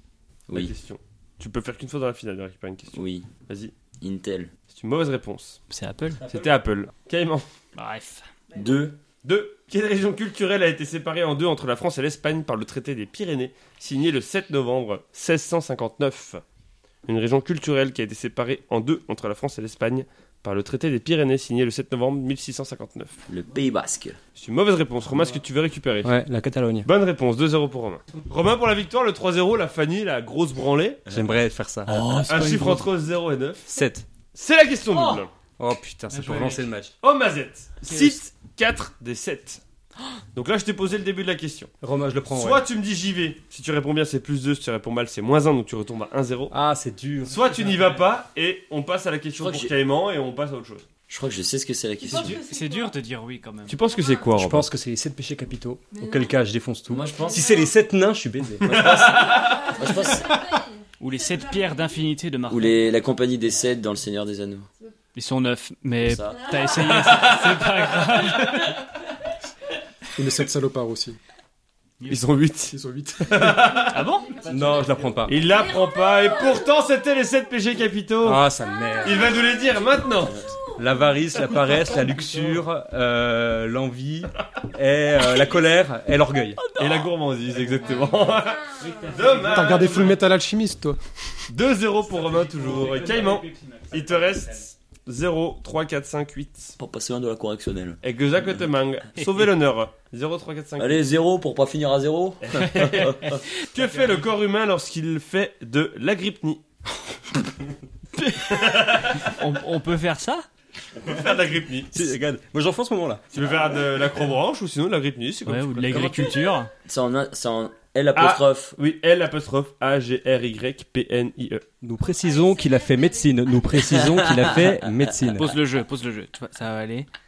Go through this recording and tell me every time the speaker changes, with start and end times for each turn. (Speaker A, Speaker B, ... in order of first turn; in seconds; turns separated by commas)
Speaker A: 0.5-0.7, Speaker B: 0.5-3.7, Speaker A: 2.9-3.3, Speaker A: 4.0-4.5, Speaker B: 4.7-5.6, Speaker C: 5.7-6.2, Speaker B: 6.3-7.5, Speaker C: 7.7-8.3, Speaker A: 8.5-9.0, Speaker B: 9.2-16.4, Speaker B: 17.1-23.1, Speaker A: 23.3-24.2, Speaker B: 24.4-26.2, Speaker D: 26.0-26.9, Speaker B: 26.8-31.0, Speaker D: 31.1-32.0, Speaker C: 31.9-32.9, Speaker A: 31.9-32.3, Speaker B: 32.3-33.7, Speaker D: 33.7-34.0, Speaker B: 34.3-35.3, Speaker C: 34.9-35.2, Speaker D: 35.6-36.9, Speaker C: 36.1-36.7, Speaker B: 37.0-39.6, Speaker C: 37.9-38.1, Speaker B: 40.3-41.7, Speaker D: 41.8-42.6, Speaker B: 42.3-46.5, Speaker D: 46.5-48.0, Speaker B: 47.3-50.9, Speaker A: 49.4-49.7, Speaker A: 51.1-52.4, Speaker C: 52.1-53.8, Speaker B: 53.7-54.7, Speaker D: 54.3-59.5, Speaker A: 56.9-57.6, Speaker B: 58.6-59.8, Speaker A: 59.7-60.5, Speaker C: 61.0-62.8, Speaker A: 62.5-64.7, Speaker C: 65.1-68.8, Speaker A: 66.0-66.5, Speaker B: 66.8-67.8, Speaker E: 70.2-71.2, Speaker B: 72.1-74.0, Speaker E: 72.7-73.7, Speaker C: 73.9-74.5, Speaker D: 74.5-75.4, Speaker B: 75.2-78.4, Speaker D: 78.2-79.3, Speaker B: 79.0-80.5, Speaker D: 80.8-86.6, Speaker E: 81.5-82.6, Speaker C: 86.6-87.1, Speaker B: 86.8-90.2, Speaker C: 88.8-89.8, Speaker E: 89.4-91.0, Speaker B: 91.5-96.8, Speaker C: 92.1-94.6, Speaker A: 96.8-98.0, Speaker B: 98.0-101.0, Speaker A: 100.8-103.4, Speaker B: 102.4-106.6, Speaker C: 103.3-103.8, Speaker C: 108.2-110.5, Speaker B: 108.4-109.3, Speaker B: 111.0-112.0, Speaker D: 111.9-113.2, Speaker B: 113.3-116.4, Speaker C: 115.5-116.7, Speaker A: 116.8-118.7, Speaker B: 118.1-121.6, Speaker D: 121.8-125.5, Speaker A: 123.9-125.5, Speaker C: 125.3-127.1